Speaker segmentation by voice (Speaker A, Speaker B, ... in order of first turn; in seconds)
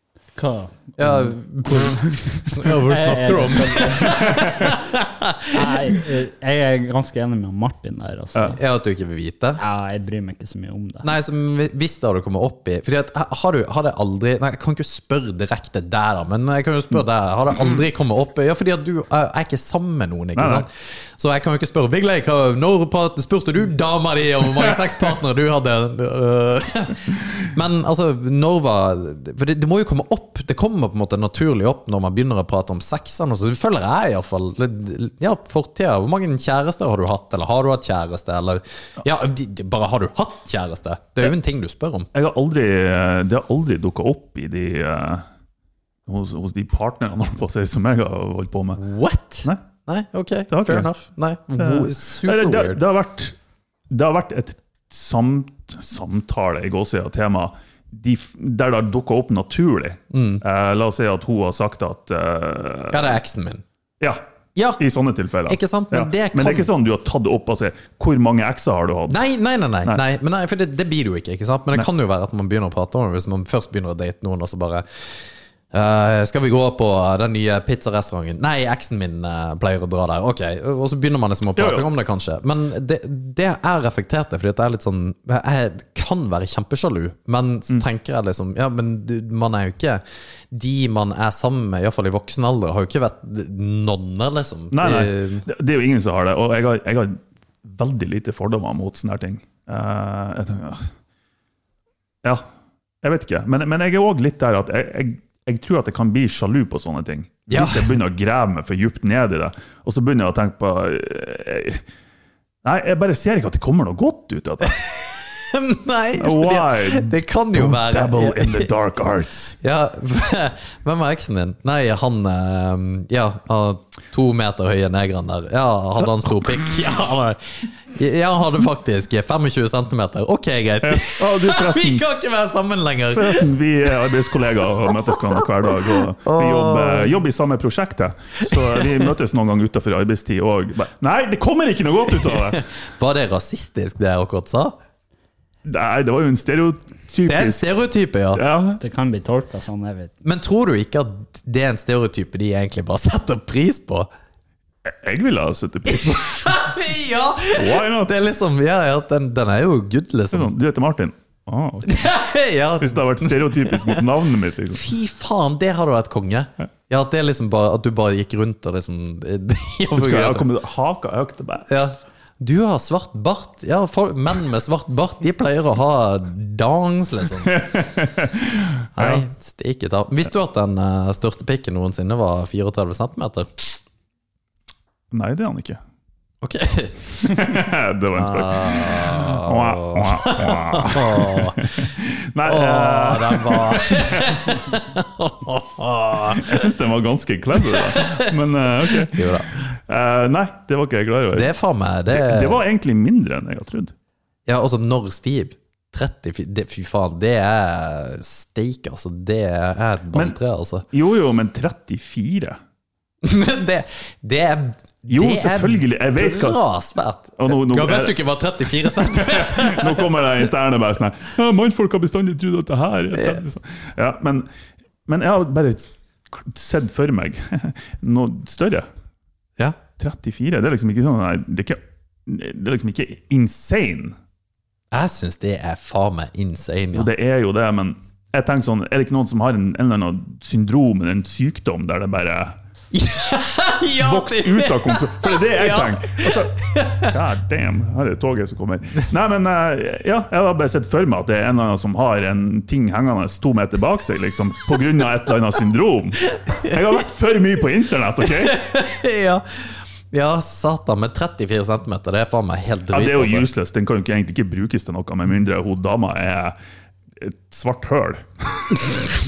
Speaker A: 0.4-4.7, 5.5-8.6, 9.6-11.1, 148.8-150.1
Speaker B: 1.0-5.8, 8.5-9.6, 11.0-42.1, 48.8-52.8, 60.1-60.4, 62.9-63.6, 64.6-64.8, 65.5-66.7, 69.1-75.1, 75.7-95.5, 107.5-107.9, 114.7-118.7, 119.6-133.5, 134.9-135.7, 136.2-137.1, 138.4-139.1, 142.2-144.8, 147.3-148.4, 150.2-154.1, 155.9-160.5, 161.8-164.1, 164.7-170.5, 171.7-177.6, 179.0-183.8, 186.4-187.4, 188.2-191.9, 192.4-196.7, 197.6-199.7, 201.3-202.6, 204.5-210.9, 213.2-220.2, 223.1-223.4, 234.9-237.1, 242.9-247.1, 256.4-256.8, 258.2-263.5
Speaker C: 4.1-4.7, 20.4-20.6, 42.1-45.2, 46.1-48.8, 50.5-50.9, 51.6-53.4, 53.9-63.2, 64.8-69.2, 81.6-81.9, 94.7-100.9, 103.0-111.8, 112.6-114.8, 116.2-119.6, 130.8-132.0, 133.1-142.6, 145.7-147.6, 148.3-148.8, 154.8-156.6, 157.5-158.1, 160.3-162.1, 162.8-164.8, 169.9-171.7, 177.5-179.2, 185.1-185.8, 187.2-194.7, 196.4-201.5, 202.1-203.9, 210.9-212.6, 215.1-216.6, 217.4-218.2, 218.8-224.5, 225.1-228.9, 230.0-234.2, 236.9-242.6, 244.0-258.6, 262.9-266.6, 267.2-269.0